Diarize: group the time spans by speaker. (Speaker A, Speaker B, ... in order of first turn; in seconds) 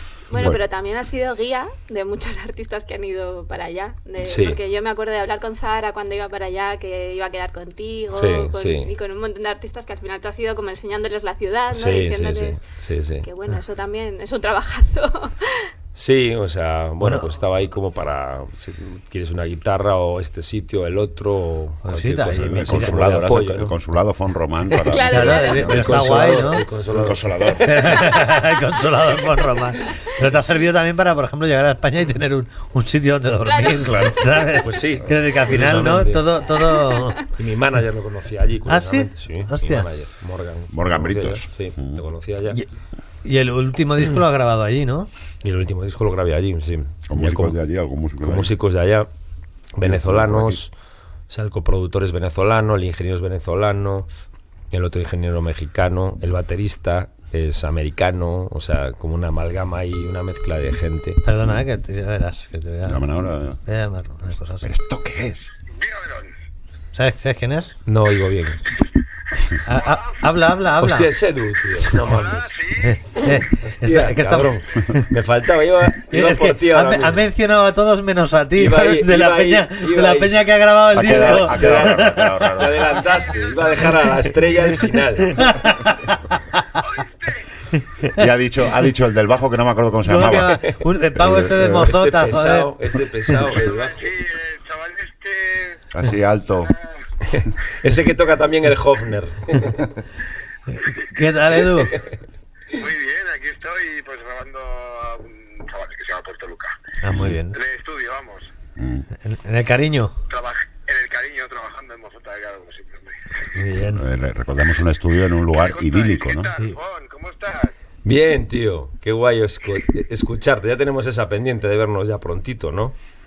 Speaker A: 0.3-12.6, 13.2-15.7, 24.7-25.9, 33.4-34.6, 36.9-37.2
Speaker B: 0.3-0.6, 22.4-25.9, 26.9-28.0, 33.9-34.2, 40.7-42.0, 47.1-48.5, 49.8-50.6, 62.8-63.6, 64.6-65.5, 80.9-83.1, 88.1-91.9, 95.9-96.7, 107.1-107.4, 108.8-109.1, 113.9-116.5
Speaker C: 4.2-4.6, 8.1-8.9, 11.7-13.3, 15.9-23.7, 25.4-28.0, 34.6-36.4, 37.4-42.6, 45.4-47.6, 48.2-49.1, 49.8-50.7, 51.3-54.1, 54.7-61.2, 67.9-68.6, 70.8-72.5, 73.5-77.3, 78.6-85.7, 90.4-90.8, 91.7-94.1, 97.3-99.9, 118.0-123.0
Speaker D: 17.0-17.3, 21.8-23.0, 25.1-26.7, 27.6-37.2, 38.7-39.9, 43.2-45.1, 61.2-63.0, 63.6-64.7, 66.9-67.8, 69.6-71.1, 72.8-75.2, 76.0-82.4, 85.2-86.2, 90.0-93.4, 100.8-102.0, 107.0-107.6, 109.2-110.2, 113.5-114.0
Speaker E: 65.7-66.3, 71.9-73.0, 86.8-87.5, 93.5-95.8, 96.7-97.0, 100.8-101.1, 102.7-106.8, 107.5-108.5, 110.3-113.2, 115.5-117.7